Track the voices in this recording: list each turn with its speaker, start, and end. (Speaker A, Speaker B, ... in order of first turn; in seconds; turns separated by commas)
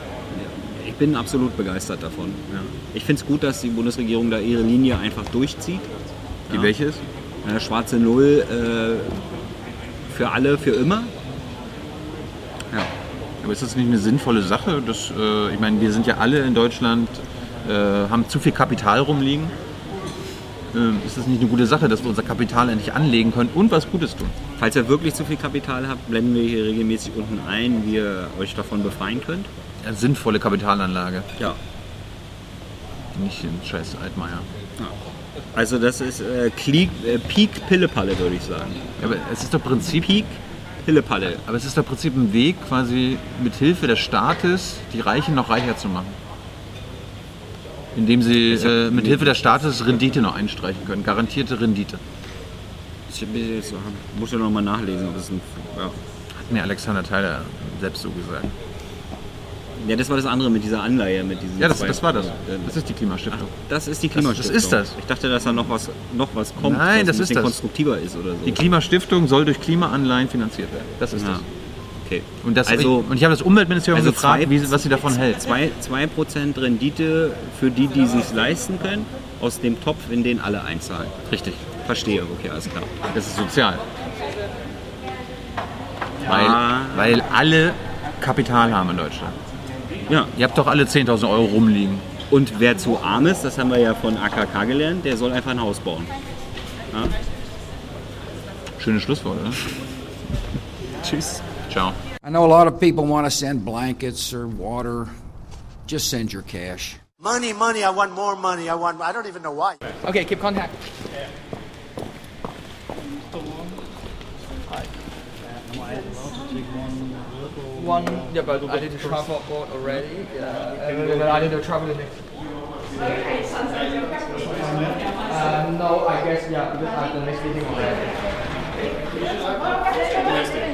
Speaker A: 0.3-5.9, Speaker B: 6.5-7.0, Speaker A: 7.4-9.2, Speaker A: 10.1-11.1, Speaker B: 13.4-19.6, Speaker B: 20.7-24.4, Speaker A: 24.6-29.5, Speaker B: 29.8-31.4, Speaker B: 33.1-34.5, Speaker A: 35.5-38.9, Speaker B: 39.0-40.3, Speaker A: 40.1-41.4, Speaker B: 41.4-46.2, Speaker B: 47.9-52.0, Speaker A: 48.5-49.4, Speaker A: 53.1-56.0, Speaker B: 56.4-58.5, Speaker A: 59.8-62.8, Speaker B: 61.6-63.5, Speaker A: 63.3-68.6, Speaker B: 64.1-65.0, Speaker B: 66.6-67.6, Speaker B: 68.5-71.5, Speaker A: 71.2-71.5, Speaker A: 72.0-73.1, Speaker B: 72.4-75.6, Speaker A: 73.9-81.2, Speaker B: 81.3-81.6, Speaker A: 81.8-83.0, Speaker B: 83.1-83.8, Speaker A: 86.2-87.2, Speaker B: 86.2-89.4, Speaker A: 90.1-90.3, Speaker B: 90.3-92.1, Speaker A: 92.3-96.1, Speaker A: 96.9-97.2, Speaker B: 98.8-99.6, Speaker B: 101.7-102.0, Speaker C: 102.2-105.2, Speaker C: 105.9-107.0, Speaker D: 107.2-109.5, Speaker C: 110.0-110.7, Speaker E: 110.2-110.5, Speaker E: 117.8-119.6, Speaker C: 117.9-121.0, Speaker E: 120.4-122.2, Speaker C: 121.6-122.0, Speaker E: 124.4-129.1, Speaker C: 125.8-127.8